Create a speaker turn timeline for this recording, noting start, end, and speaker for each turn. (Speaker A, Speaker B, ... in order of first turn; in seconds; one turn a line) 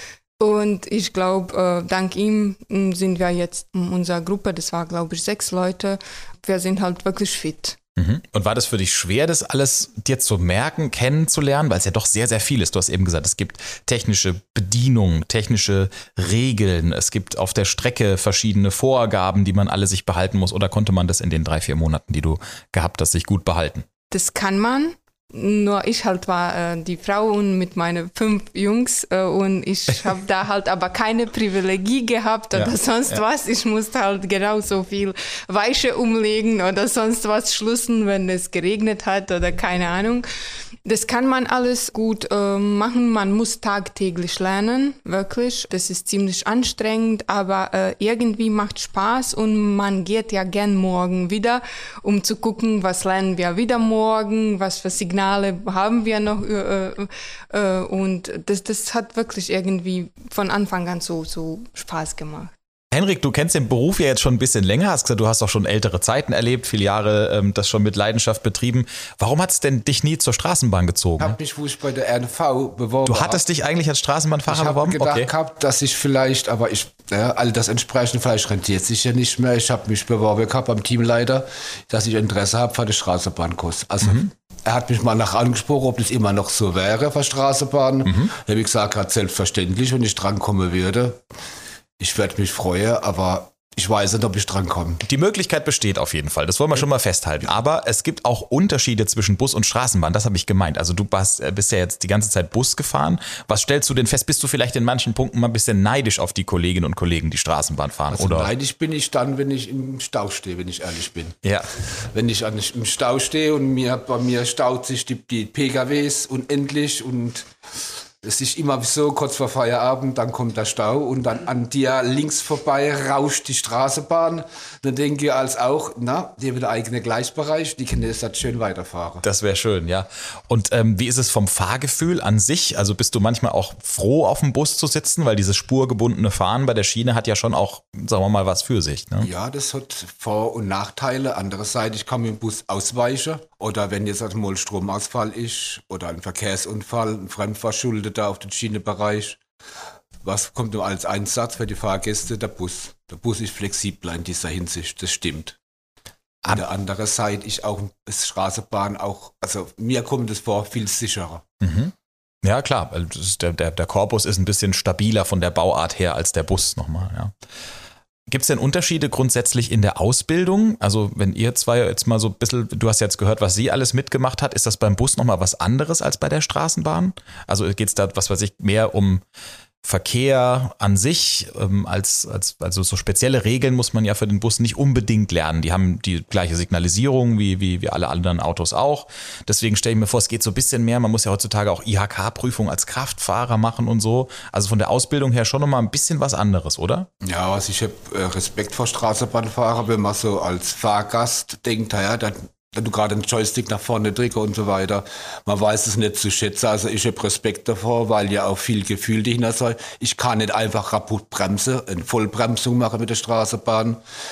Speaker A: 0.4-7.8
Speaker B: 8.0-23.9
Speaker A: 24.1-40.3
Speaker A: 40.8-62.5
Speaker B: 62.9-71.4
Speaker C: 71.2-73.4
Speaker B: 73.0-75.3
Speaker C: 74.5-91.2
Speaker B: 84.0-84.3
Speaker B: 88.0-88.3
Speaker C: 92.0-95.0
Speaker B: 95.0-108.5
Speaker C: 108.1-111.4
Speaker B: 111.4-111.8
Speaker C: 112.0-117.5
Speaker C: 118.2-129.2
Speaker B: 129.2-139.3
Speaker C: 139.2-149.4
Speaker C: 150.2-155.6
Speaker C: 156.5-161.4
Speaker B: 161.6-167.3
Speaker B: 168.3-179.2
Speaker B: 179.8-197.1
Speaker C: 197.2-214.0